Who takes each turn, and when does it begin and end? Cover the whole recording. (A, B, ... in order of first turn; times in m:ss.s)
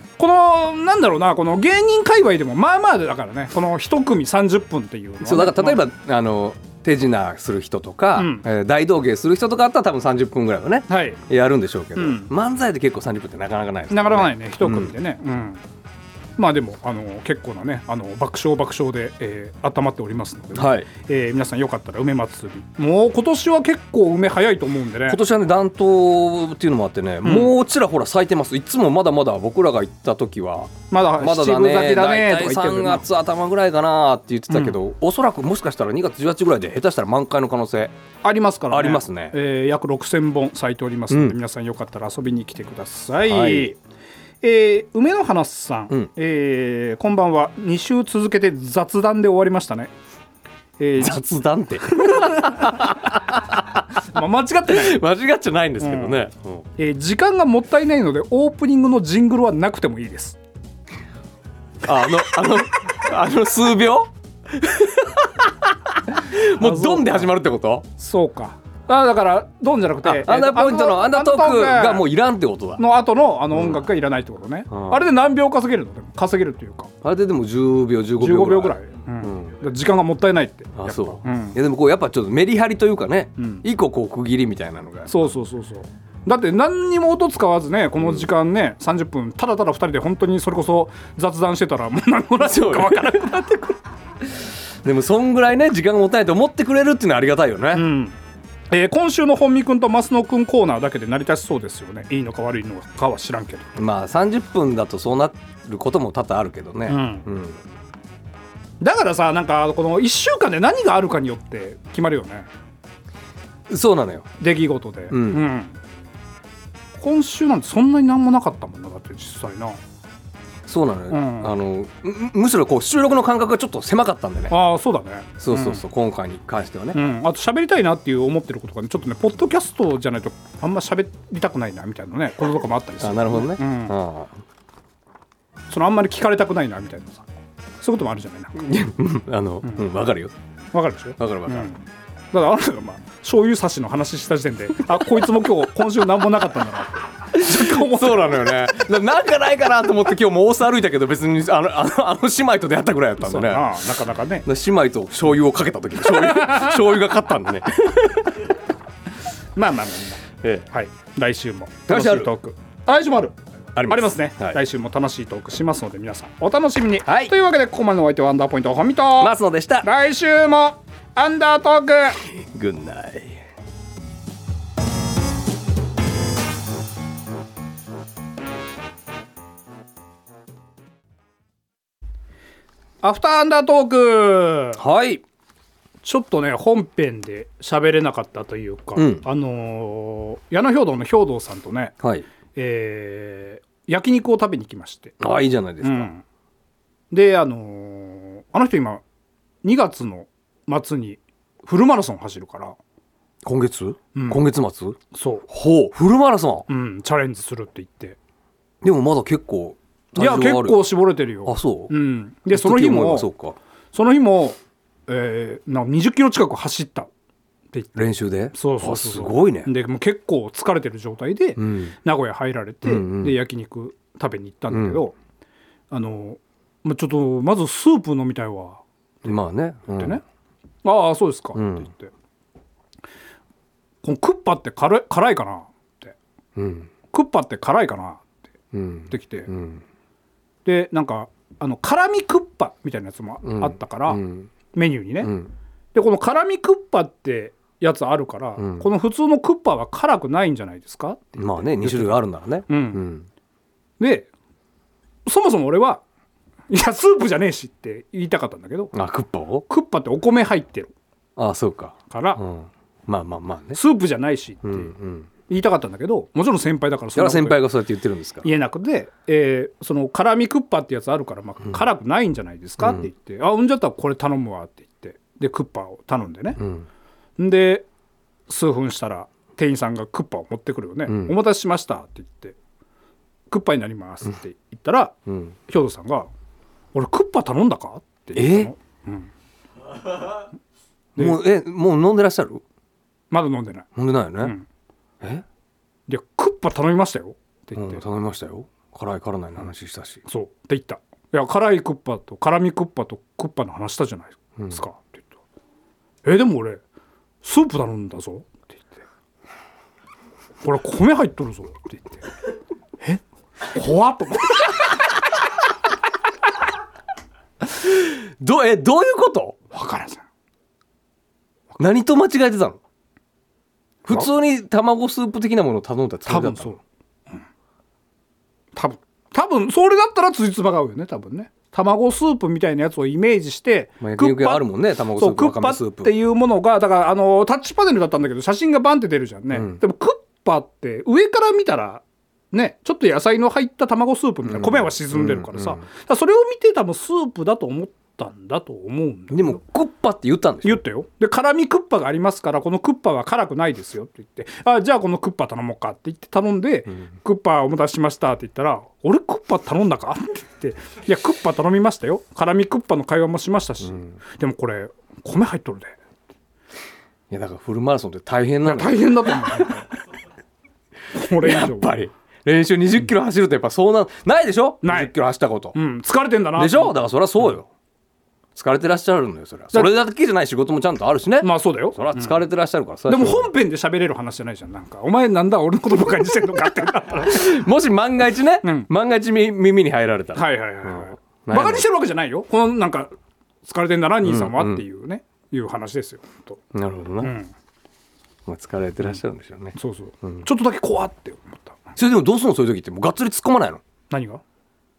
0:00.2-0:05.8 A
0:05.2-0:14.9 B
0:08.2-0:08.4 A
0:10.9-0:11.2 A
0:12.0-0:12.3 A
0:13.9-0:15.6 A
0:16.4-0:25.2 A
0:20.5-0:20.9 B
0:25.1-0:37.9 B
0:27.2-0:27.5 A
0:30.9-0:33.0 A
0:34.5-0:34.8 A
0:38.2-0:43.8 A
0:38.7-0:39.4 B
0:41.1-0:41.4 B
0:43.3-0:43.7 B
0:44.4-0:49.9 A
0:50.8-0:51.2 A
0:51.0-0:53.8 B
0:51.9-0:52.8 A
0:54.0-0:55.0 A
0:54.7-0:56.6 B
0:55.8-0:56.2 A
0:56.8-1:00.4 A
1:01.8-1:07.9 B
1:06.6-1:07.3 A
1:08.0-1:12.0 A
1:10.0-1:12.8 B
1:12.8-1:16.9 A
1:13.5-1:13.9 B
1:14.7-1:15.0 B
1:17.0-1:19.5 B
1:18.2-1:21.6 A
1:20.8-1:25.3 B
1:23.4-1:23.6 A
1:25.1-1:33.7 A
1:28.0-1:28.2 B
1:32.4-1:33.7 B
1:34.8-1:37.9 B
1:37.7-1:38.2 A
1:38.7-1:43.7 A
1:43.8-1:47.6 B
1:46.9-1:47.2 A
1:48.8-1:52.5 A
1:53.7-1:54.3 B
1:54.4-1:55.8 A
1:55.1-1:55.4 B
1:57.0-1:59.8 A
2:00.7-2:04.5 B
2:01.1-2:01.5 A
2:04.5-2:05.8 A
2:05.4-2:07.0 B
2:06.9-2:14.0 A
2:13.0-2:14.4 B
2:15.7-2:17.2 A
2:17.8-2:18.6 A
2:18.6-2:20.3 B
2:20.7-2:28.6 A
2:21.2-2:21.7 B
2:27.3-2:33.8 B
2:33.2-2:34.5 A
2:34.4-2:38.5 B
2:36.1-2:36.6 A
2:39.6-2:52.2 A
2:40.4-2:40.7 B
2:41.9-2:42.3 B
2:43.8-2:44.6 B
2:47.0-2:47.3 B
2:49.2-2:49.9 B
2:52.3-2:53.4 B
3:03.0-3:04.8 A
3:04.8-3:05.2 B
3:06.0-3:11.9 A
3:09.0-3:09.2 B
3:12.0-3:12.2 B
3:12.6-3:15.2 A
3:15.2-3:16.1 B
3:15.8-3:16.2 A
3:17.1-3:19.0 A
3:19.6-3:22.8 A
3:23.4-3:25.0 B
3:24.1-3:24.4 A
3:25.1-3:25.4 A
3:25.5-3:26.6 B
3:26.7-3:28.2 A
3:28.8-3:30.9 B
3:30.2-3:33.3 A
3:31.4-3:31.9 B
3:32.5-3:33.6 B
3:33.9-3:37.1 A
3:37.7-3:45.1 A
3:38.0-3:39.7 B
3:41.6-3:41.9 B
3:42.8-3:43.4 B
3:44.7-3:45.0 B
3:45.9-3:49.4 A
3:49.2-3:50.2 B
3:49.9-3:50.2 A
3:50.8-3:52.1 A
3:51.5-3:51.9 B
3:54.0-3:56.1 A
3:56.6-3:56.9 B
3:57.1-3:58.2 A
3:58.7-3:59.8 B
3:59.1-3:59.5 A
4:00.6-4:04.2 A
4:03.4-4:04.5 B
4:04.7-4:05.3 A
4:05.2-4:05.5 B
4:05.9-4:13.0 A
4:08.6-4:08.9 B
4:11.4-4:13.3 B
4:14.0-4:14.3 A
4:15.2-4:16.0 A
4:16.7-4:18.9 A
4:18.9-4:19.6 B
4:19.7-4:20.9 A
4:21.4-4:23.8 B
4:22.1-4:22.4 A
4:23.7-4:24.9 A
4:24.6-4:25.3 B
4:25.5-4:27.6 A
4:27.1-4:28.5 B
4:28.4-4:36.6 A
4:32.8-4:33.1 B
4:36.6-4:36.9 B
4:37.4-4:37.8 A
4:38.5-4:42.5 A
4:41.1-4:41.3 B
4:43.5-4:45.2 A
4:45.3-4:45.5 B
4:45.7-4:46.3 A
4:46.9-4:49.3 A
4:48.3-4:48.7 B
4:51.2-4:52.6 B
4:53.3-4:53.9 A
4:54.0-4:54.5 B
4:56.1-4:58.0 A
4:57.7-5:00.2 B
5:00.3-5:05.2 A
5:06.2-5:06.8 A
5:07.4-5:09.0 A
5:10.6-5:12.3 A
5:13.7-5:15.1 A
5:17.8-5:19.6 B
5:19.7-5:20.2 A
5:21.8-5:22.8 B
5:24.0-5:26.7 B
5:26.3-5:26.8 A
5:28.7-5:49.6 A
5:34.0-5:36.1 B
5:39.5-5:39.8 B
5:44.5-5:45.8 B
5:49.3-5:50.8 B
5:50.6-6:06.0 A
6:07.3-6:09.8 B
6:08.6-6:09.9 A
6:11.1-6:11.9 A
6:11.4-6:15.7 B
6:14.8-6:15.1 A
6:15.7-6:17.0 A
6:16.6-6:17.7 B
6:18.6-6:23.5 B
6:21.4-6:22.4 A
6:23.1-6:27.6 A
6:27.2-6:31.8 B
6:28.6-6:28.9 A
6:30.3-6:33.1 A
6:33.6-6:36.6 A
6:34.2-6:34.8 B
6:36.7-6:37.3 B
6:37.2-6:37.5 A
6:38.4-6:40.4 B
6:39.8-6:41.8 A
6:42.0-6:43.8 B
6:44.1-6:44.4 A